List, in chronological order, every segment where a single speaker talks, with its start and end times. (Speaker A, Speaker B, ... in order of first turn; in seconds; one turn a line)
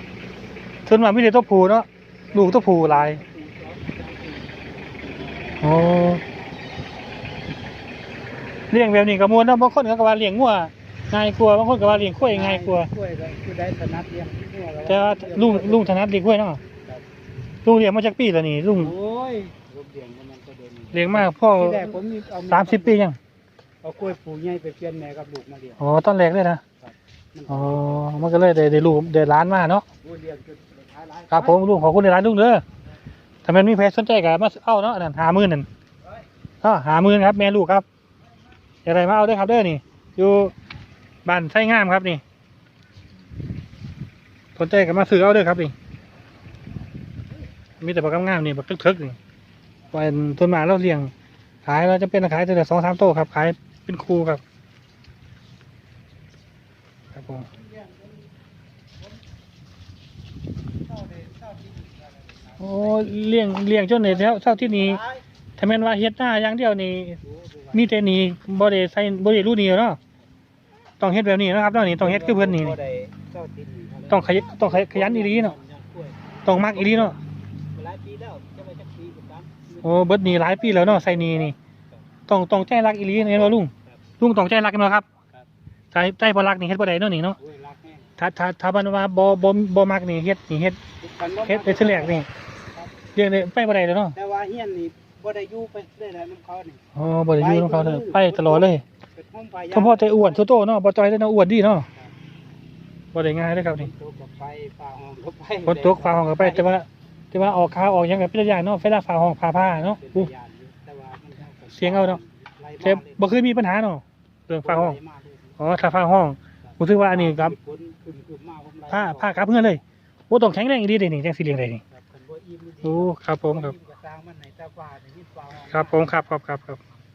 Speaker A: 0.9-3.2
Speaker B: 2.3-6.2
Speaker A: 5.6-6.2
Speaker A: 8.7-12.9
Speaker B: 11.8-16.0
Speaker A: 14.9-16.6
Speaker A: 17.6-18.9
Speaker B: 18.7-23.0
Speaker A: 20.9-23.2
Speaker B: 23.8-25.8
Speaker A: 25.8-26.6
Speaker B: 26.8-28.3
Speaker A: 27.5-29.9
Speaker B: 30.0-31.6
Speaker A: 31.3-32.6
Speaker A: 33.5-35.7
Speaker A: 36.6-37.9
Speaker A: 38.9-40.5
Speaker A: 41.2-42.2
Speaker A: 44.6-45.7
Speaker A: 47.8-49.2
Speaker A: 49.9-51.1
Speaker A: 51.6-54.4
Speaker A: 57.1-57.5
Speaker B: 60.9-63.2
Speaker A: 62.6-65.0
Speaker B: 64.0-65.2
Speaker A: 65.6-67.2
Speaker B: 67.2-68.0
Speaker A: 67.7-70.0
Speaker A: 71.0-72.8
Speaker B: 72.0-77.2
Speaker A: 74.1-75.6
Speaker A: 76.5-77.2
Speaker B: 77.7-82.0
Speaker A: 79.8-81.5
Speaker A: 82.3-85.1
Speaker B: 83.1-84.0
Speaker A: 85.9-87.4
Speaker B: 87.4-88.1
Speaker A: 88.2-90.8
Speaker B: 91.0-93.0
Speaker A: 91.5-92.3
Speaker A: 93.2-94.2
Speaker B: 94.2-96.8
Speaker A: 96.9-98.8
Speaker B: 97.4-100.5
Speaker A: 99.7-101.9
Speaker A: 103.1-103.9
Speaker B: 103.7-106.8
Speaker A: 105.6-110.3
Speaker B: 109.5-113.4
Speaker A: 111.7-112.2
Speaker A: 112.8-115.0
Speaker B: 114.6-115.6
Speaker A: 115.6-117.5
Speaker B: 116.7-119.8
Speaker A: 118.9-121.8
Speaker B: 121.9-126.2
Speaker A: 122.8-123.7
Speaker A: 125.7-126.8